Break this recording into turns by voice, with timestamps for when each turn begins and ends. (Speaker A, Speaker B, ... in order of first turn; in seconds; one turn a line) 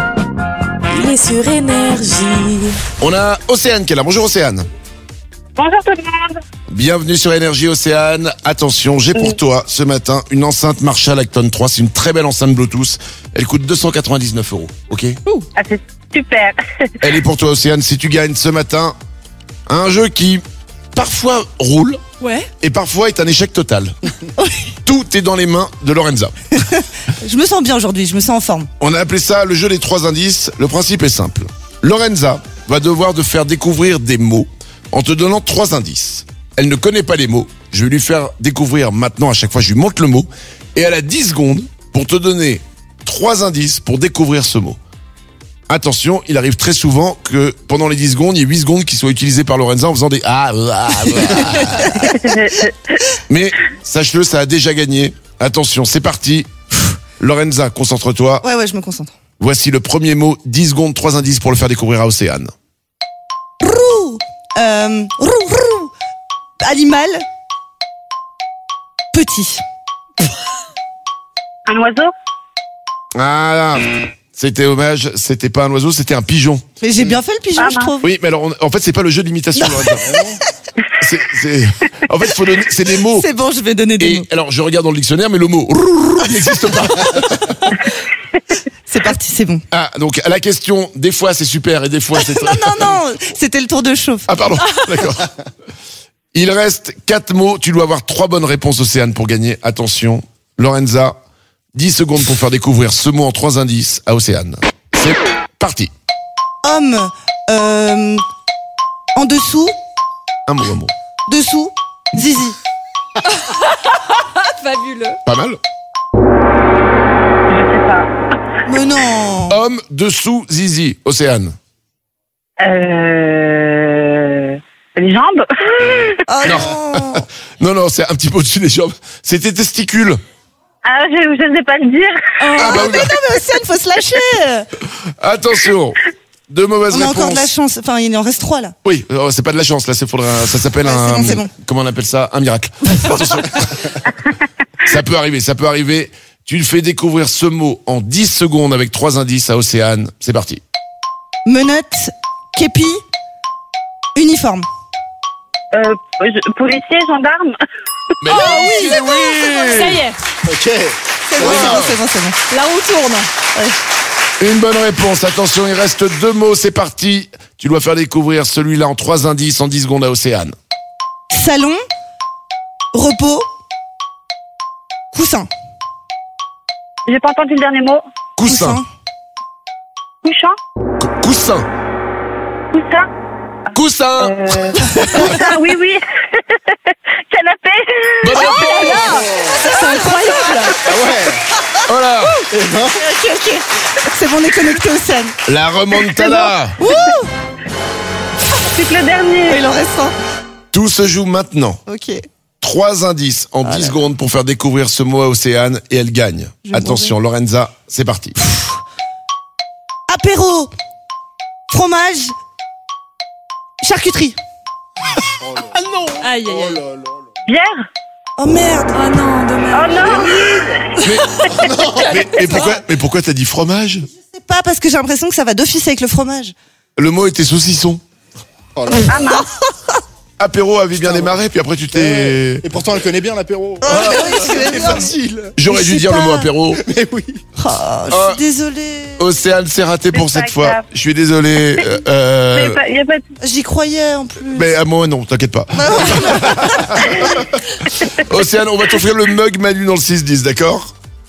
Speaker A: 0.9-2.8
Speaker B: 3.0-4.7
Speaker C: 5.6-6.4
Speaker B: 6.7-15.2
Speaker C: 15.6-16.6
Speaker B: 17.0-18.9
Speaker B: 19.7-20.4
Speaker B: 20.9-22.0
Speaker A: 22.2-22.5
Speaker B: 22.6-23.9
Speaker D: 24.4-24.7
Speaker B: 24.8-26.6
Speaker D: 27.2-28.7
Speaker B: 28.8-44.8
Speaker B: 45.7-52.0
Speaker C: 52.0-53.0
Speaker B: 53.3-56.5
Speaker B: 57.2-58.4
Speaker D: 58.4-59.1
Speaker B: 59.4-62.5
Speaker D: 63.6-65.9
Speaker D: 66.6-67.2
Speaker D: 69.1-69.6
Speaker C: 71.7-72.1
Speaker B: 73.1-76.6
Speaker D: 76.8-78.1
Speaker C: 77.6-77.9
Speaker B: 78.0-80.2
Speaker B: 81.0-83.2
Speaker D: 83.1-84.3
Speaker B: 84.0-87.7
Speaker D: 88.9-89.6
Speaker B: 89.7-93.0
Speaker D: 92.2-94.3
Speaker B: 94.3-95.3
Speaker B: 96.3-101.2
Speaker B: 101.7-105.9
Speaker D: 106.6-108.2
Speaker D: 109.1-109.7
Speaker B: 110.5-110.9
Speaker D: 111.3-112.6
Speaker A: 114.4-115.2
Speaker B: 115.2-115.6
Speaker C: 117.5-118.1
Speaker D: 118.7-119.6
Speaker B: 119.5-121.5
Speaker C: 122.6-126.2
Speaker D: 126.3-127.2
Speaker B: 126.4-130.2
Speaker C: 130.8-132.5
Speaker D: 132.4-134.7
Speaker B: 132.6-133.2
Speaker B: 135.2-137.5
Speaker D: 136.9-138.7
Speaker B: 138.8-144.0
Speaker D: 140.8-141.5
Speaker B: 144.8-150.6
Speaker D: 151.4-153.0
Speaker D: 154.1-154.7
Speaker C: 155.7-157.6
Speaker B: 158.2-160.0
Speaker A: 158.3-160.2
Speaker D: 158.3-159.0
Speaker E: 160.5-161.8
Speaker D: 161.2-162.4
Speaker B: 161.4-161.9
Speaker A: 162.5-163.3
Speaker B: 164.4-170.5
Speaker D: 171.3-171.8
Speaker D: 172.9-173.4
Speaker D: 175.1-175.5
Speaker C: 177.1-178.0
Speaker B: 178.3-178.8
Speaker D: 178.5-178.8
Speaker C: 180.2-180.5
Speaker B: 181.0-181.6
Speaker C: 182.7-183.0
Speaker B: 183.7-184.4
Speaker C: 184.2-186.8
Speaker D: 184.8-185.4
Speaker C: 187.3-189.2
Speaker B: 188.2-189.1
Speaker D: 188.3-191.0
Speaker E: 189.1-189.6
Speaker A: 189.7-190.7
Speaker E: 190.8-191.4
Speaker B: 191.9-192.4
Speaker E: 192.5-193.0
Speaker D: 193.0-195.3
Speaker B: 195.4-196.8
Speaker D: 196.0-197.3
Speaker C: 198.7-199.6
Speaker D: 199.5-200.1
Speaker B: 200.7-201.8
Speaker D: 201.8-202.2
Speaker B: 202.6-208.4
Speaker D: 203.6-204.0
Speaker D: 206.7-207.1
Speaker D: 210.1-210.7
Speaker D: 211.7-212.3
Speaker D: 213.8-214.4
Speaker E: 215.4-217.2
Speaker A: 216.2-216.8
Speaker C: 217.5-217.8
Speaker D: 218.4-219.0
Speaker A: 218.9-220.4
Speaker C: 219.7-220.8
Speaker A: 221.0-221.5
Speaker E: 221.6-222.2
Speaker B: 222.0-224.1
Speaker D: 222.3-222.8
Speaker D: 224.2-226.5
Speaker B: 227.0-228.0
Speaker E: 228.8-229.1
Speaker C: 229.1-229.5
Speaker B: 230.4-232.7
Speaker E: 231.0-231.3
Speaker E: 231.9-235.1
Speaker D: 233.8-235.1
Speaker B: 233.9-236.8
Speaker D: 235.7-236.5
Speaker E: 236.8-237.4
Speaker D: 237.6-239.2
Speaker B: 238.1-238.4
Speaker B: 239.2-242.8
Speaker C: 240.1-240.8
Speaker C: 242.5-243.2
Speaker D: 243.4-244.8
Speaker B: 244.5-247.3
Speaker D: 245.8-247.1
Speaker B: 248.2-250.9